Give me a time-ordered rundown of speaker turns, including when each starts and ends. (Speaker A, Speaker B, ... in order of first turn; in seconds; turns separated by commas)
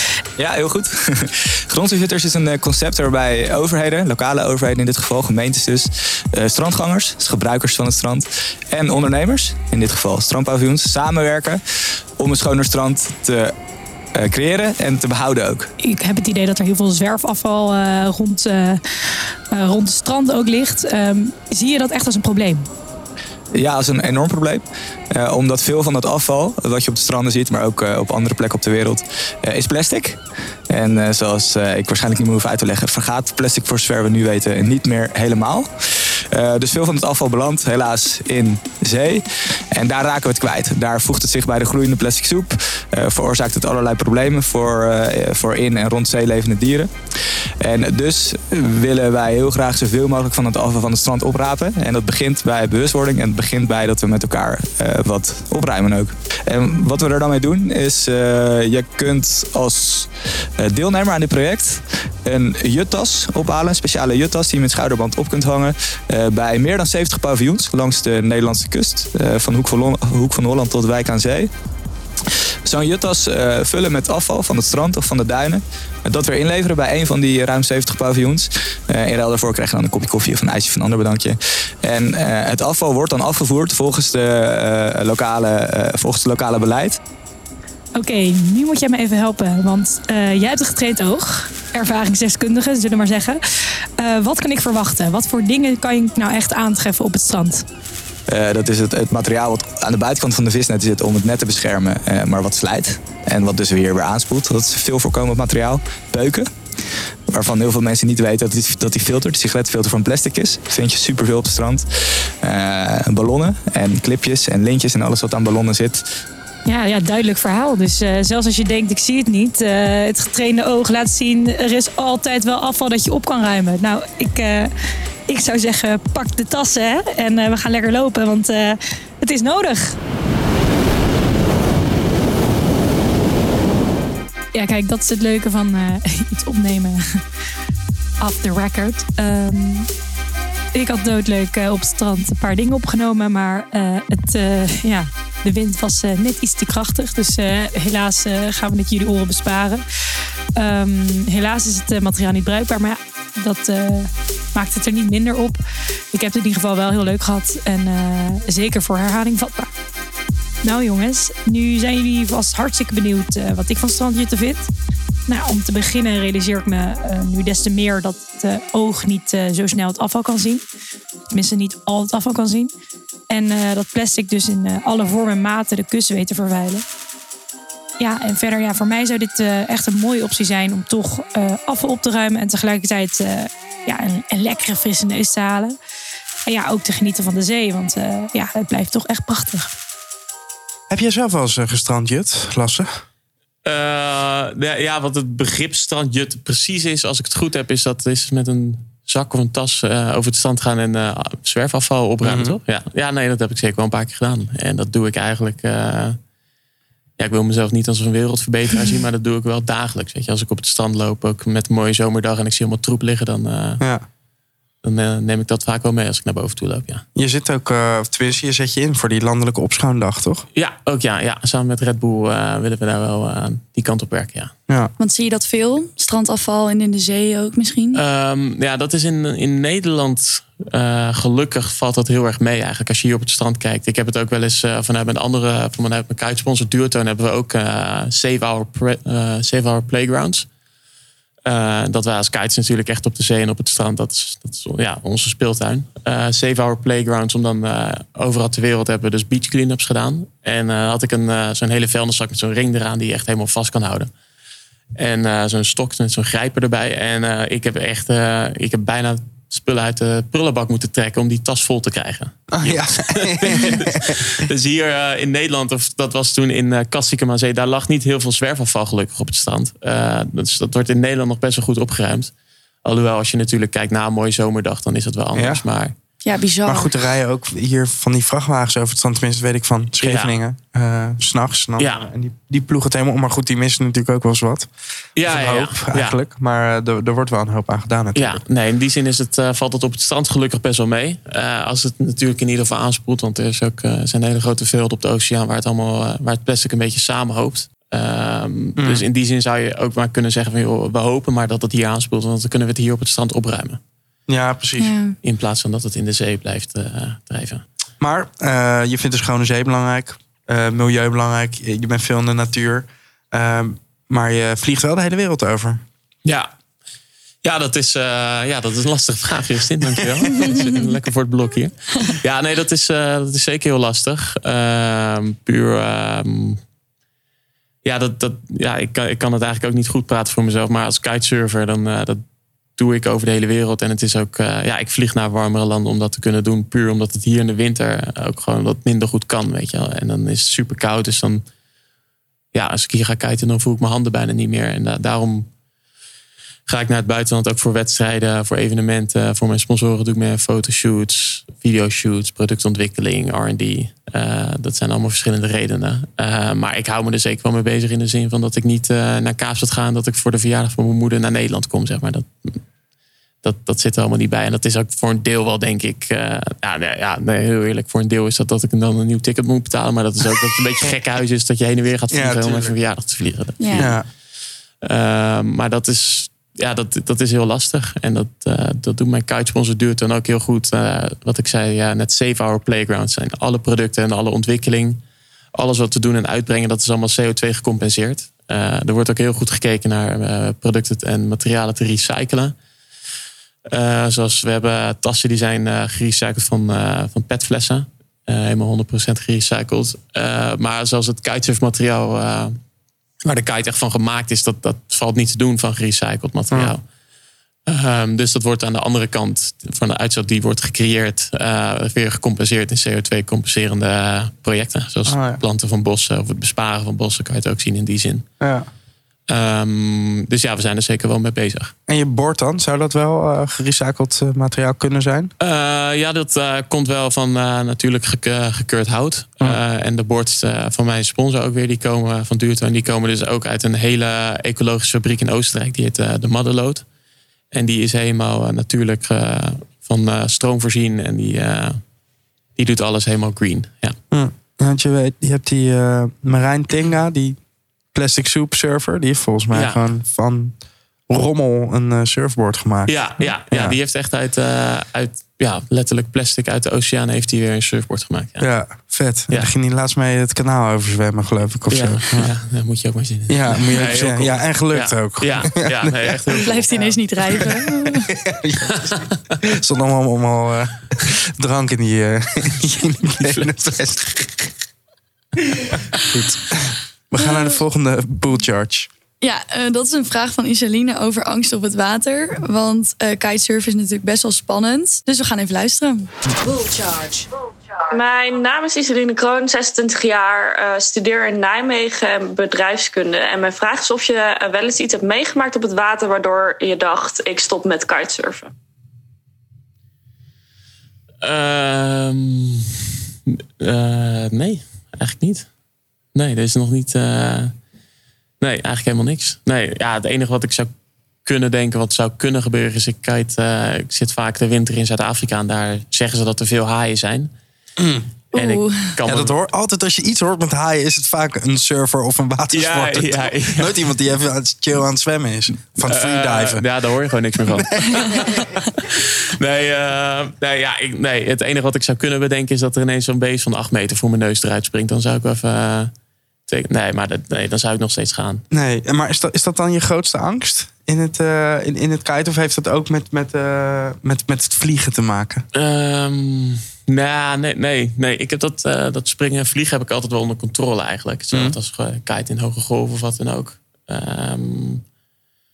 Speaker A: 0.4-11.6, Speaker A: 12.2-13.5, Speaker A: 14.2-15.7, Speaker B: 15.8-18.8, Speaker B: 19.5-22.7, Speaker A: 23.5-30.2, Speaker A: 30.7-39.2, Speaker A: 39.7-46.9, Speaker A: 47.6-71.5, Speaker A: 72.7-87.0, Speaker B: 88.0-93.4, Speaker B: 94.0-97.7, Speaker A: 98.3-106.5, Speaker A: 107.3-116.0, Speaker B: 116.7-124.7, Speaker B: 125.3-130.0, Speaker B: 134.5-137.2, Speaker B: 138.2-139.9, Speaker B: 140.7-149.8, Speaker B: 150.6-155.6, Speaker B: 156.1-159.7, Speaker B: 160.6-164.7, Speaker B: 165.3-170.7, Speaker B: 171.3-172.7, Speaker B: 173.3-176.8, Speaker B: 178.0-185.8, Speaker B: 186.5-189.7, Speaker C: 190.9-193.0, Speaker D: 193.6-206.2, Speaker C: 202.2-202.6, Speaker D: 207.2-213.8, Speaker D: 214.8-217.0, Speaker C: 217.2-220.5, Speaker D: 220.5-224.5, Speaker E: 225.0-228.0, Speaker D: 227.9-240.5, Speaker D: 241.4-254.1, Speaker D: 254.9-272.3, Speaker C: 262.5-264.3, Speaker D: 272.8-275.9, Speaker C: 275.4-275.6, Speaker E: 276.2-277.0, Speaker C: 276.7-284.7, Speaker D: 280.0-280.4, Speaker D: 281.8-282.1, Speaker D: 285.2-286.2, Speaker C: 285.2-288.4, Speaker D: 288.1-303.8, Speaker C: 298.8-299.0, Speaker C: 304.3-304.9, Speaker E: 304.8-305.2, Speaker D: 305.2-307.6, Speaker C: 308.0-315.8, Speaker D: 316.2-316.5, Speaker D: 317.4-326.6, Speaker D: 327.8-332.2, Speaker D: 332.8-341.4, Speaker D: 342.5-345.5, Speaker D: 346.7-362.6, Speaker D: 363.4-374.0, Speaker C: 372.1-372.7, Speaker E: 373.6-373.9, Speaker C: 373.8-374.1, Speaker D: 374.8-385.0, Speaker D: 385.5-392.6, Speaker D: 393.7-402.6, Speaker D: 403.2-406.8, Speaker D: 407.7-418.3, Speaker C: 415.1-415.4, Speaker C: 418.4-418.7, Speaker D: 419.3-421.7, Speaker C: 421.9-425.3, Speaker D: 425.4-436.9, Speaker D: 437.5-441.8, Speaker D: 442.6-444.0, Speaker C: 444.1-447.4, Speaker C: 447.9-453.8, Speaker D: 449.5-449.8, Speaker D: 452.9-458.5, Speaker C: 458.4-462.3, Speaker D: 461.7-466.8, Speaker C: 463.3-467.4, Speaker E: 466.4-468.1, Speaker C: 468.1-474.1, Speaker D: 468.9-469.4, Speaker D: 473.2-473.5, Speaker C: 475.6-478.9, Speaker E: 477.2-477.6, Speaker E: 479.2-486.1, Speaker F: 486.4-487.3, Speaker F: 487.9-498.5, Speaker D: 501.2-505.5, Speaker D: 506.1-507.6, Speaker D: 508.4-510.7, Speaker D: 511.2-517.3, Speaker C: 517.8-518.1, Speaker E: 518.3-518.9, Speaker D: 518.3-519.4, Speaker C: 519.1-526.7, Speaker D: 522.5-523.8, Speaker D: 525.8-535.9, Speaker C: 527.5-528.6, Speaker D: 536.5-538.4, Speaker C: 538.5-545.5, Speaker D: 545.5-554.8, Speaker C: 551.3-551.6